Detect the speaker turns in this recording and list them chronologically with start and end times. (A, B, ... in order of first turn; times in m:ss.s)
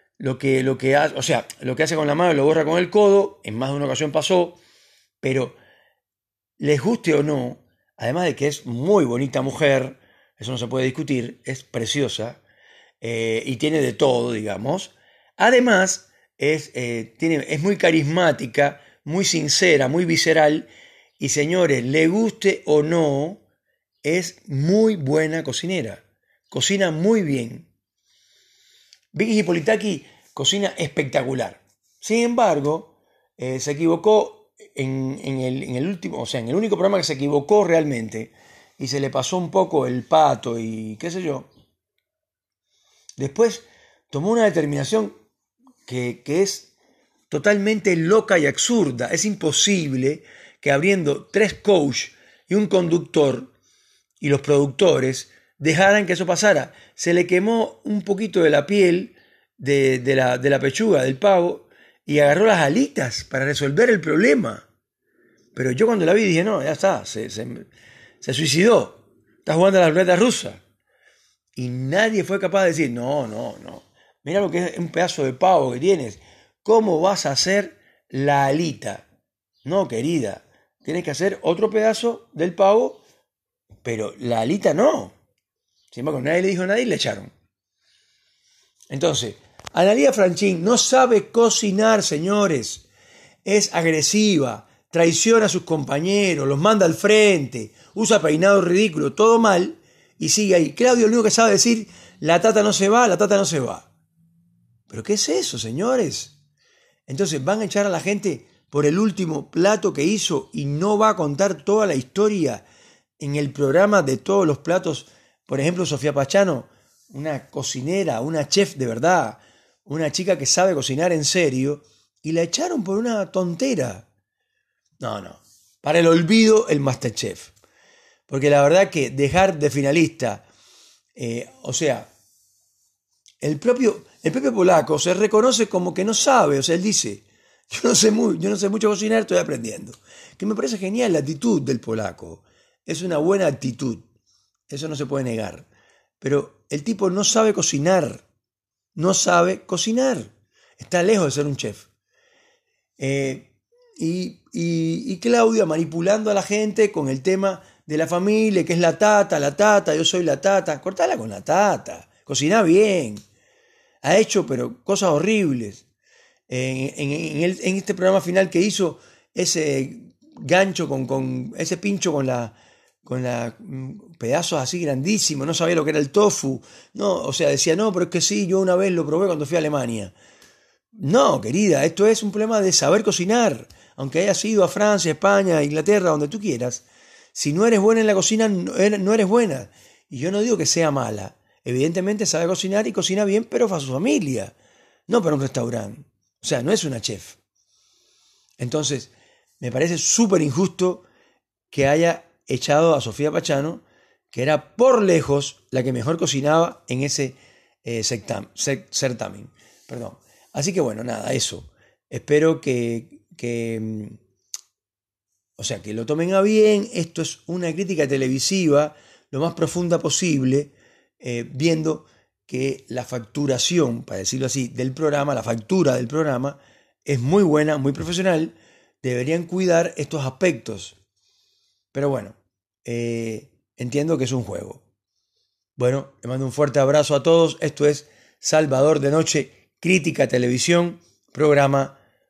0:00.2-0:04.6 A
0:05.2-0:05.6 A
0:06.6-0:12.4 A
0:13.0-0:23.4 A
0:24.0-0:27.7 A
0:29.1-0:41.5 A
0:43.2-0:45.1 A
0:45.9-0:46.7 A
0:47.3-0:53.5 A
0:54.2-1:04.7 A
1:05.6-1:07.7 A
1:08.2-1:10.6 A
1:11.6-1:19.0 A
1:19.6-1:23.0 A
1:23.8-1:25.1 A
1:25.9-1:27.3 A
1:28.9-1:32.9 A
1:33.4-1:43.9 A
1:44.9-1:46.4 A
1:47.1-1:52.6 A
1:53.2-2:04.1 A
2:05.0-2:07.5 A
2:08.3-2:10.4 A
2:11.2-2:12.1 A
2:13.4-2:24.0 A
2:24.7-2:25.7 A
2:26.2-2:28.2 A
2:29.0-2:31.9 A
2:33.0-2:43.2 A
2:44.0-2:45.8 A
2:46.5-3:00.1 A
3:00.9-3:14.6 A
3:15.1-3:17.4 A
3:18.6-3:21.0 A
3:21.7-3:34.2 A
3:35.6-3:51.0 A
3:51.9-3:54.8 A
3:55.8-4:02.0 A